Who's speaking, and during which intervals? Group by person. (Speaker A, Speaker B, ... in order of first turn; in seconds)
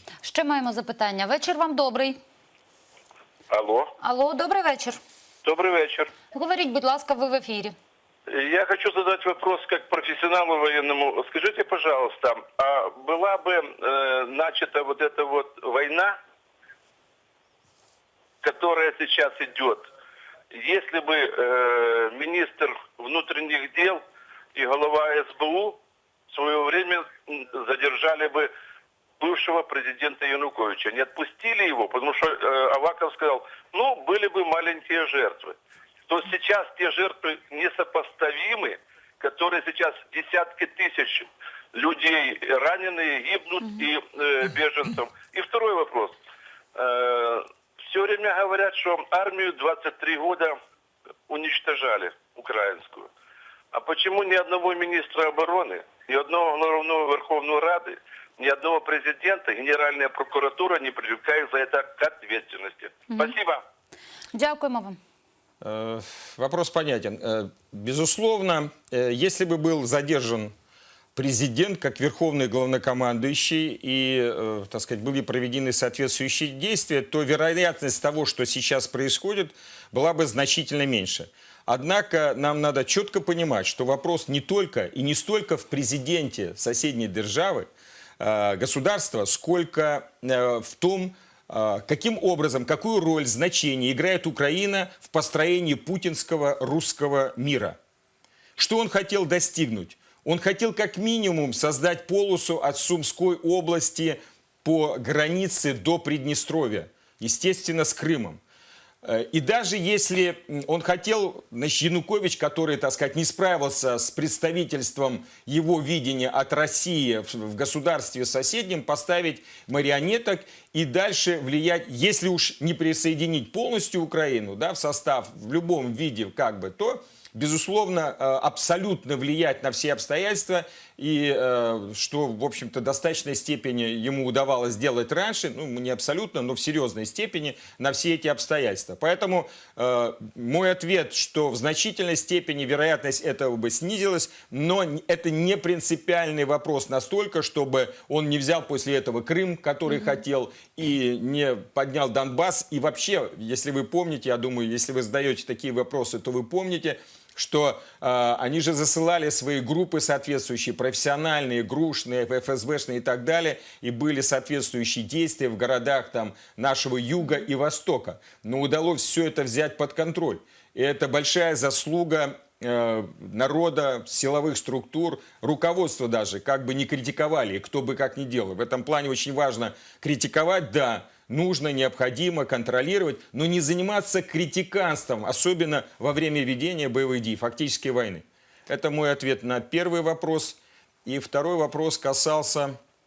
Speaker A: 0.2-2.2, 4.0-5.0, 6.3-7.7, 64.3-65.0
Speaker B: 3.5-3.9, 5.4-6.1, 8.3-16.2, 18.4-19.9, 20.5-24.0, 24.5-25.8, 26.3-28.5, 29.2-35.5, 36.1-46.2, 46.7-50.6, 51.3-53.1, 53.7-63.6
Speaker C: 65.6-70.5, 71.1-87.7, 88.2-97.8, 98.6-108.4, 109.0-192.8